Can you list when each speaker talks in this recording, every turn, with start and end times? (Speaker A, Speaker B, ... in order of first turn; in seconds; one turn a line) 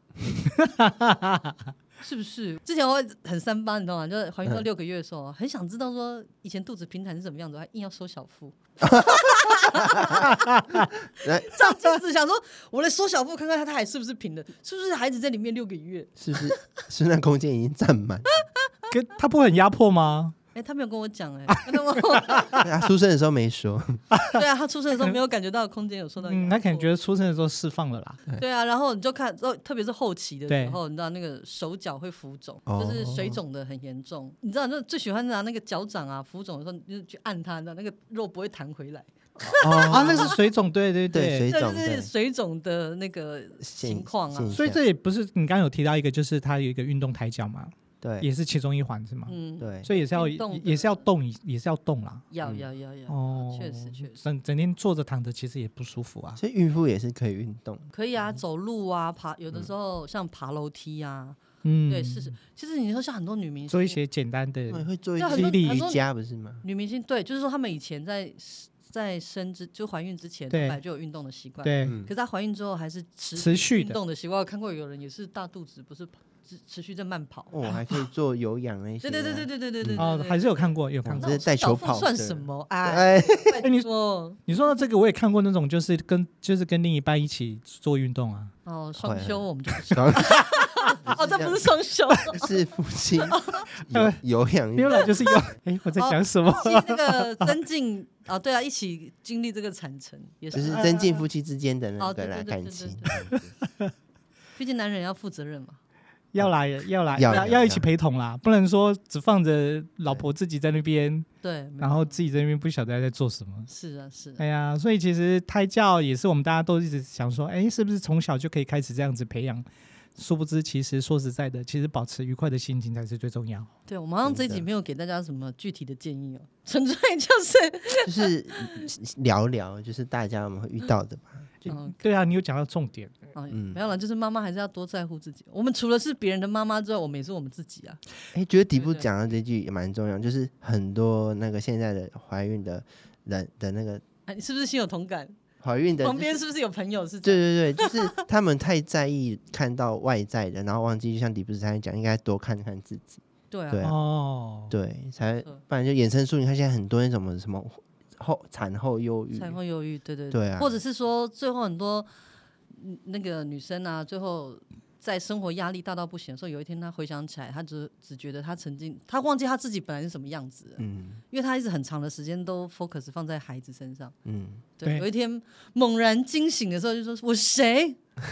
Speaker A: 0.5-1.5
Speaker B: 2.0-10.4
Speaker C: 8.8-10.3
Speaker A: 10.3-10.8
Speaker B: 11.2-16.7
Speaker C: 11.2-11.5
Speaker C: 16.2-18.3
Speaker A: 18.9-20.3
Speaker B: 20.5-22.6
Speaker C: 22.6-24.0
Speaker A: 24.1-24.4
Speaker B: 24.3-26.9
Speaker A: 26.2-28.2
Speaker B: 28.4-40.4
Speaker A: 30.5-30.8
Speaker C: 32.6-33.4
Speaker C: 39.6-40.3
Speaker A: 39.9-41.5
Speaker C: 41.1-42.1
Speaker B: 41.5-44.6
Speaker C: 43.6-44.8
Speaker A: 44.5-52.3
Speaker C: 48.0-48.3
Speaker B: 49.3-51.0
Speaker C: 49.6-49.9
Speaker B: 52.3-54.2
Speaker A: 53.1-56.4
Speaker C: 56.4-57.9
Speaker B: 57.9-64.0
Speaker A: 61.6-62.4
Speaker A: 63.7-65.9
Speaker C: 64.7-66.6
Speaker B: 65.2-66.0
Speaker B: 66.6-77.7
Speaker A: 70.5-70.8
Speaker A: 71.6-72.0
Speaker C: 71.8-72.1
Speaker A: 73.4-74.0
Speaker C: 77.5-80.0
Speaker B: 79.0-84.4
Speaker A: 80.0-81.3
Speaker C: 81.0-83.6
Speaker A: 83.6-88.5
Speaker B: 88.6-92.5
Speaker C: 89.0-90.5
Speaker C: 91.0-91.6
Speaker C: 92.3-95.4
Speaker B: 93.3-93.7
Speaker A: 93.9-97.5
Speaker B: 95.9-101.0
Speaker C: 100.5-103.5
Speaker B: 102.0-103.1
Speaker A: 103.3-103.9
Speaker B: 104.5-105.8
Speaker A: 106.3-111.2
Speaker C: 107.1-107.8
Speaker B: 111.4-112.2
Speaker A: 111.8-113.7
Speaker B: 113.7-114.4
Speaker A: 114.4-119.6
Speaker A: 120.2-123.7
Speaker B: 123.9-128.9
Speaker C: 124.2-124.7
Speaker C: 128.0-131.5
Speaker A: 131.6-133.2
Speaker B: 131.7-132.0
Speaker B: 133.3-138.0
Speaker C: 133.5-133.8
Speaker C: 138.3-144.0
Speaker B: 138.7-139.1
Speaker B: 144.3-145.3
Speaker C: 145.6-146.4
Speaker B: 146.0-148.2
Speaker C: 147.2-154.0
Speaker B: 153.5-153.9
Speaker A: 153.8-154.7
Speaker C: 154.7-159.6
Speaker B: 159.3-162.1
Speaker C: 160.3-160.8
Speaker B: 162.7-174.1
Speaker C: 170.8-171.2
Speaker C: 174.2-174.6
Speaker B: 174.8-178.0